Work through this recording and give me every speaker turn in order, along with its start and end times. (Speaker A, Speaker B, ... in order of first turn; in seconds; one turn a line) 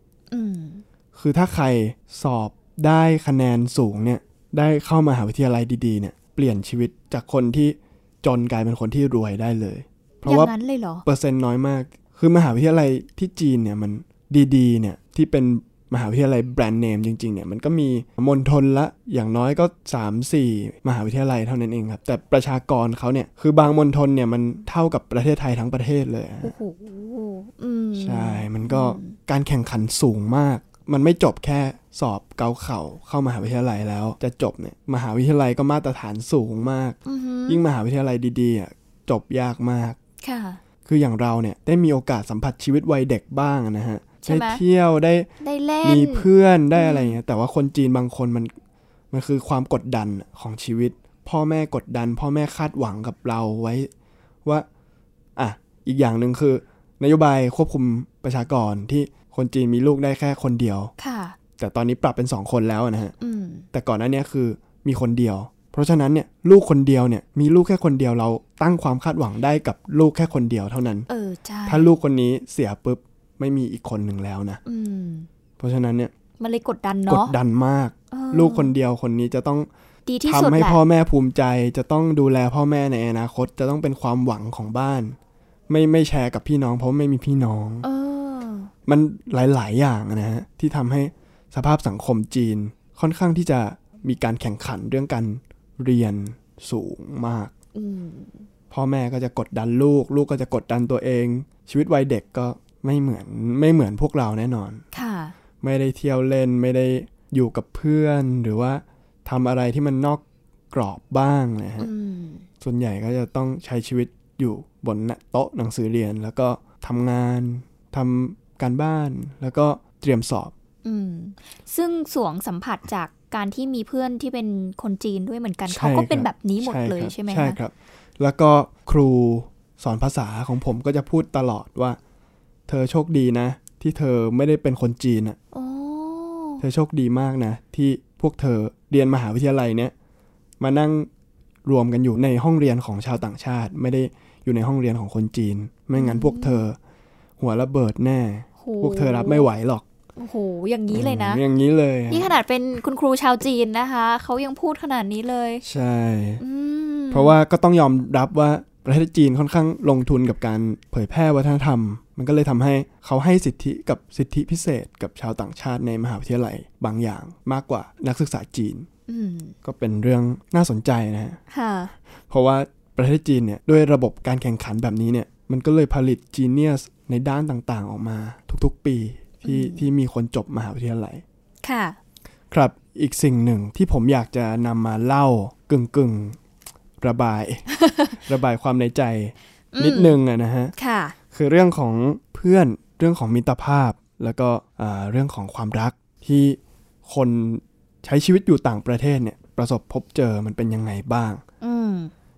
Speaker A: 0.3-0.8
Speaker B: 1.1-10.5
Speaker A: 10.2-11.1
Speaker B: 11.1-26.5
Speaker A: 26.4-29.2
Speaker B: 28.0-37.0
Speaker A: 37.0-37.6
Speaker B: 37.5-40.0
Speaker A: 40.2-40.6
Speaker B: 40.9-45.3
Speaker A: 44.2-44.6
Speaker A: 45.4-47.2
Speaker B: 45.8-48.5
Speaker B: 49.1-53.9
Speaker B: 55.4-60.9
Speaker A: 61.0-61.4
Speaker B: 61.6-63.1
Speaker A: 63.2-63.7
Speaker B: 63.7-71.1
Speaker A: 71.1-71.9
Speaker B: 71.7-74.6
Speaker A: 74.7-75.3
Speaker B: 75.6-76.1
Speaker A: 76.4-77.3
Speaker B: 77.1-79.7
Speaker A: 78.1-78.7
Speaker A: 80.1-80.8
Speaker B: 80.2-85.2
Speaker B: 85.7-87.9
Speaker A: 87.8-88.7
Speaker B: 88.9-97.5
Speaker A: 97.8-98.5
Speaker B: 98.7-104.8
Speaker A: 104.9-105.3
Speaker B: 105.6-111.9
Speaker A: 111.8-112.5
Speaker B: 112.6-120.5
Speaker A: 120.8-127.6
Speaker B: 125.7-132.0
Speaker B: 132.7-135.4
Speaker A: 135.5-136.6
Speaker B: 136.6-139.9
Speaker B: 140.6-141.1
Speaker B: 141.7-146.8
Speaker A: 146.0-146.6
Speaker B: 147.4-149.8
Speaker A: 148.6-149.5
Speaker A: 150.2-151.4
Speaker B: 150.9-152.4
Speaker A: 152.1-155.6
Speaker B: 155.6-156.4
Speaker A: 156.4-157.4
Speaker B: 157.1-168.9
Speaker A: 169.1-169.6
Speaker B: 169.6-171.4
Speaker A: 171.5-171.9
Speaker B: 172.3-181.2
Speaker A: 179.4-179.9
Speaker A: 181.6-182.0
Speaker B: 182.5-186.4
Speaker B: 187.0-190.7
Speaker A: 187.7-188.2
Speaker A: 189.7-190.2
Speaker A: 190.8-191.2
Speaker B: 191.3-201.4
Speaker A: 201.6-202.1